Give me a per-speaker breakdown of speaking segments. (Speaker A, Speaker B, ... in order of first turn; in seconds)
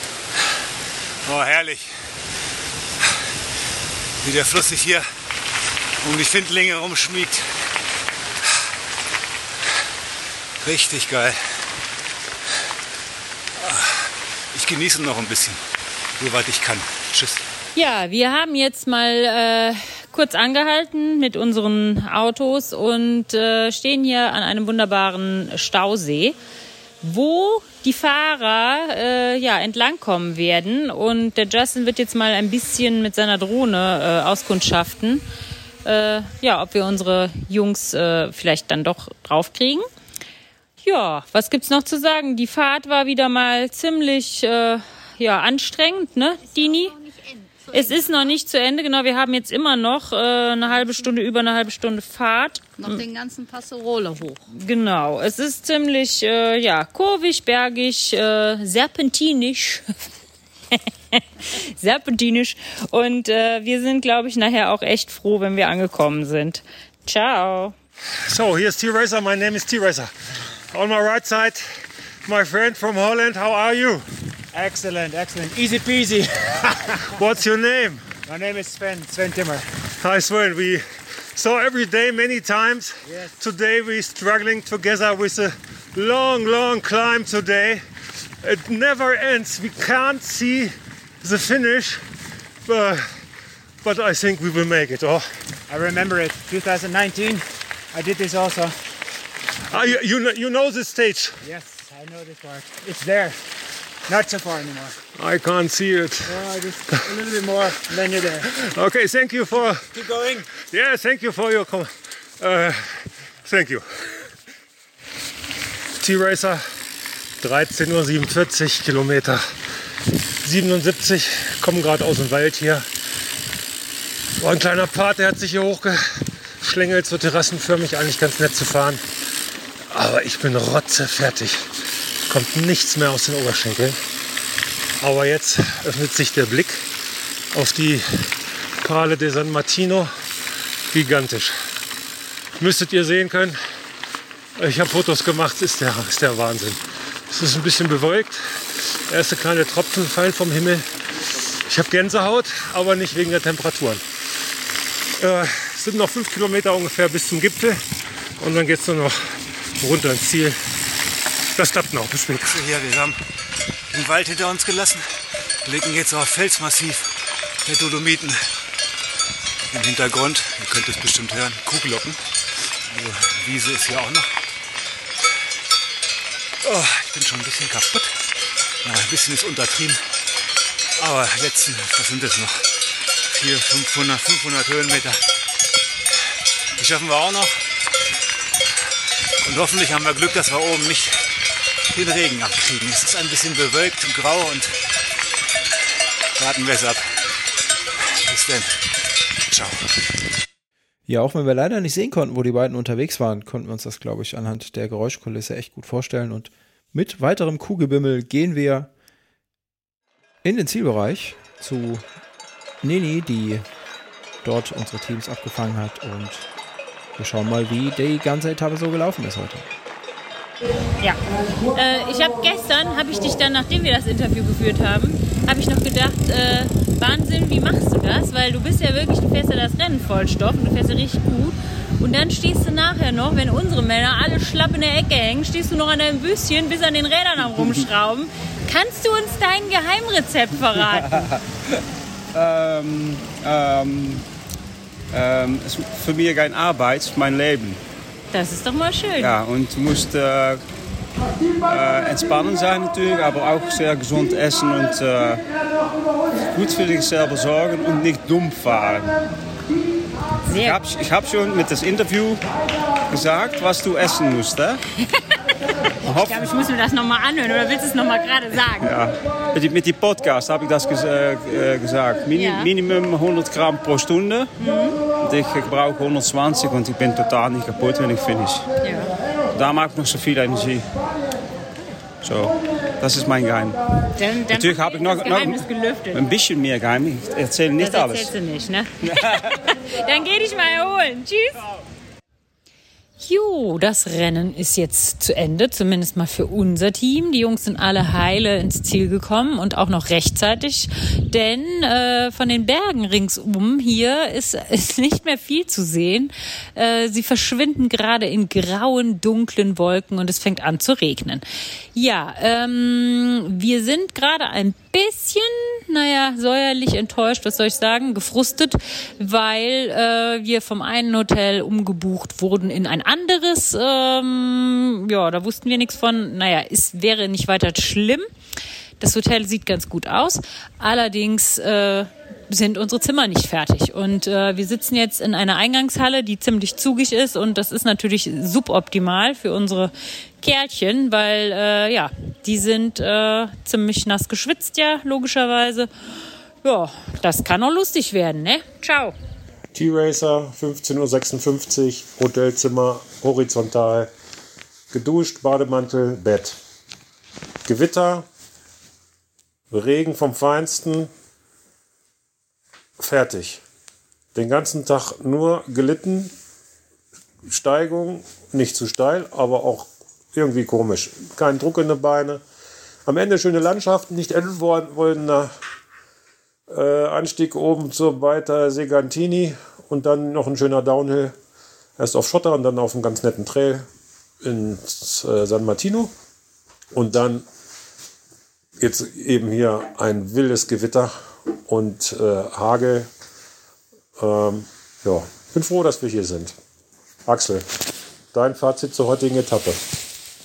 Speaker A: 1.2-1.9, 4.2-5.0, 6.0-7.4, 10.6-11.4, 13.6-15.6, 16.2-17.4, 162.4-163.3, 163.9-168.4, 169.7-174.3, 176.6-178.3, 178.8-180.0, 180.9-185.2, 186.8-187.6, 189.4-191.3, 191.9-194.8, 196.4-197.3, 197.9-198.9, 199.4-199.9
Speaker B: 17.8-26.4, 27.0-35.2, 35.9-39.9, 40.8-47.0, 47.7-53.0, 54.5-59.9, 60.7-67.8, 221.7-241.3, 248.3-249.4, 260.5-260.8, 266.2-268.9, 272.4-272.7, 274.6-275.0, 278.8-279.1, 284.1-286.2, 287.8-291.6, 293.2-311.4, 311.9-328.3, 329.0-345.9, 346.6-349.1
Speaker C: 46.5-48.2, 52.8-54.4
Speaker D: 68.2-70.1, 70.7-74.1, 77.1-78.0, 80.0-87.8, 88.4-92.0, 92.6-93.2, 93.8-95.3, 99.7-101.4, 105.2-106.4, 108.4-110.0, 110.5-114.2, 116.0-116.6, 117.4-119.6, 120.4-122.9, 124.4-129.0, 129.9-131.7, 132.3-134.0, 135.0-136.9, 137.5-140.1, 140.9-141.6, 142.6-143.6, 144.6-154.0, 155.2-157.8, 158.4-160.6, 161.6-162.6, 349.7-354.1, 354.9-356.6, 357.6-358.3, 359.7-361.1, 363.0-363.6, 364.4-366.3, 367.4-372.4, 373.1-375.5, 376.7-381.4, 382.0-383.9, 384.4-386.1, 386.9-387.4, 388.8-391.1, 391.7-393.1, 394.2-396.6, 397.3-397.6, 398.3-399.8
Speaker E: 74.5-77.0, 78.3-79.7, 83.1-83.4, 95.7-98.8, 101.4-103.4, 104.1-105.0, 106.2-108.5, 109.9-110.5
Speaker F: 201.1-208.9, 210.4-212.1, 212.8-213.6, 214.4-216.5, 217.2-219.7
Speaker G: 241.0-241.3, 242.3-244.2, 245.1-247.8, 249.2-250.6, 251.7-255.4, 256.5-259.1, 260.6-262.4, 263.1-264.8, 266.0-266.5, 268.8-274.5, 275.2-278.7, 279.5-280.9, 282.2-283.8, 284.5-285.6, 286.1-288.3, 289.1-289.4